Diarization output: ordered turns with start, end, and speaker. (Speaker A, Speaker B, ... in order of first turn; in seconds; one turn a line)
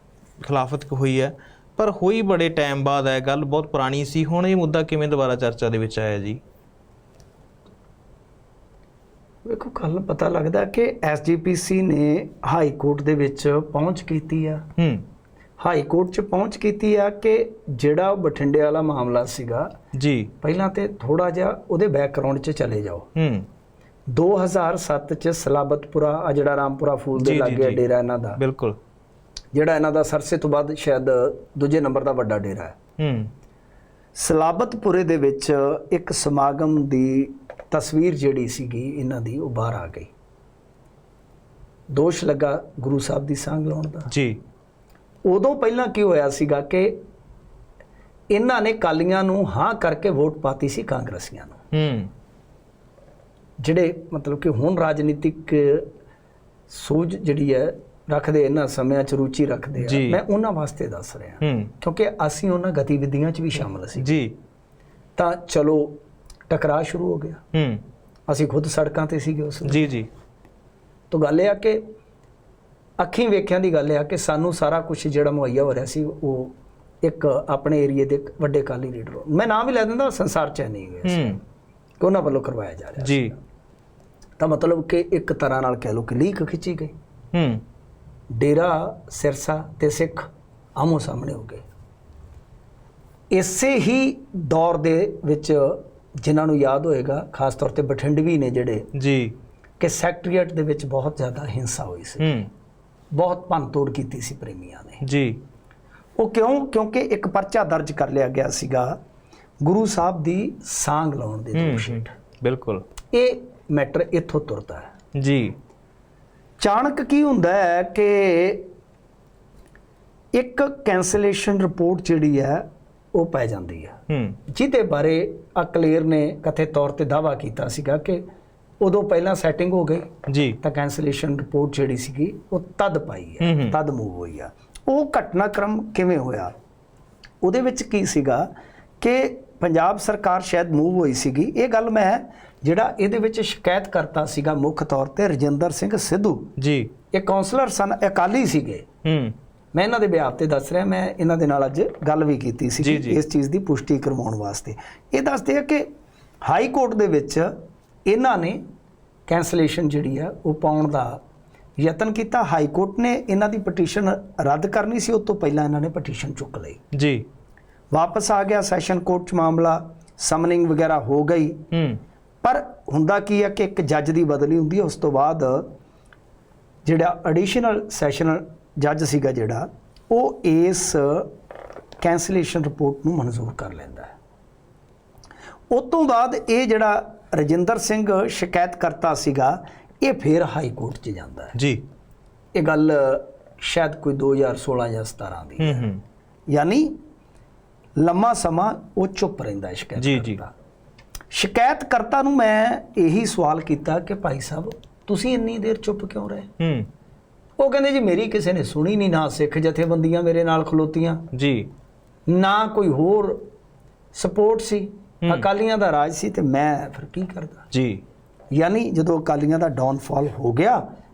Speaker A: 0.4-6.4
Speaker B: 9.4-14.6
Speaker A: 14.8-15.0
Speaker B: 15.6-19.7
Speaker A: 19.9-20.3
Speaker B: 20.4-23.1
Speaker A: 23.1-23.4
Speaker B: 24.1-28.4
Speaker A: 27.1-27.8
Speaker A: 28.4-28.8
Speaker B: 29.5-32.8
Speaker A: 33.0-33.3
Speaker B: 34.2-40.1
Speaker B: 41.9-44.1
Speaker A: 44.1-44.4
Speaker B: 45.2-46.9
Speaker B: 48.3-51.6
Speaker A: 51.7-52.1
Speaker B: 53.6-55.9
Speaker B: 56.7-64.2
Speaker A: 59.8-60.2
Speaker A: 61.4-61.7
Speaker A: 64.0-64.3
Speaker B: 65.2-67.4
Speaker A: 67.5-67.8
Speaker B: 68.3-69.8
Speaker A: 69.7-70.1
Speaker B: 71.1-71.8
Speaker B: 73.0-81.4
Speaker A: 81.0-81.4
Speaker B: 82.0-83.3
Speaker A: 83.0-83.3
Speaker B: 84.4-86.9
Speaker A: 87.3-87.6
Speaker B: 88.3-91.6
Speaker B: 93.3-98.9
Speaker A: 98.9-99.3
Speaker B: 99.8-102.3
Speaker A: 102.2-102.5
Speaker B: 103.1-105.0
Speaker A: 105.0-105.4
Speaker B: 106.2-109.0
Speaker B: 109.6-112.1
Speaker A: 111.5-112.8
Speaker B: 113.1-114.9
Speaker A: 115.2-115.5
Speaker B: 116.6-118.7
Speaker B: 120.3-124.0
Speaker A: 124.1-124.4
Speaker B: 124.5-128.2
Speaker B: 128.8-130.1
Speaker A: 130.3-130.6
Speaker B: 130.6-136.5
Speaker A: 133.4-133.8
Speaker B: 137.4-138.5
Speaker B: 139.0-146.5
Speaker A: 146.6-146.9
Speaker B: 147.1-148.8
Speaker A: 149.0-149.3
Speaker B: 149.7-155.9
Speaker A: 152.8-153.2
Speaker B: 156.4-157.5
Speaker B: 158.1-158.6
Speaker B: 159.3-161.2
Speaker B: 161.8-166.8
Speaker A: 166.9-167.2
Speaker B: 167.9-171.6
Speaker A: 171.7-172.0
Speaker B: 172.4-175.7
Speaker B: 176.8-181.3
Speaker B: 182.0-184.1
Speaker B: 185.7-191.5
Speaker A: 191.5-191.8
Speaker B: 192.5-195.9
Speaker A: 195.6-196.0
Speaker B: 196.5-196.9
Speaker B: 198.0-200.5
Speaker A: 200.0-200.4
Speaker B: 201.3-206.5
Speaker A: 206.6-206.9
Speaker B: 207.6-211.2
Speaker A: 211.3-211.7
Speaker B: 212.3-213.4
Speaker B: 214.1-217.7
Speaker A: 217.7-218.0
Speaker B: 218.5-220.8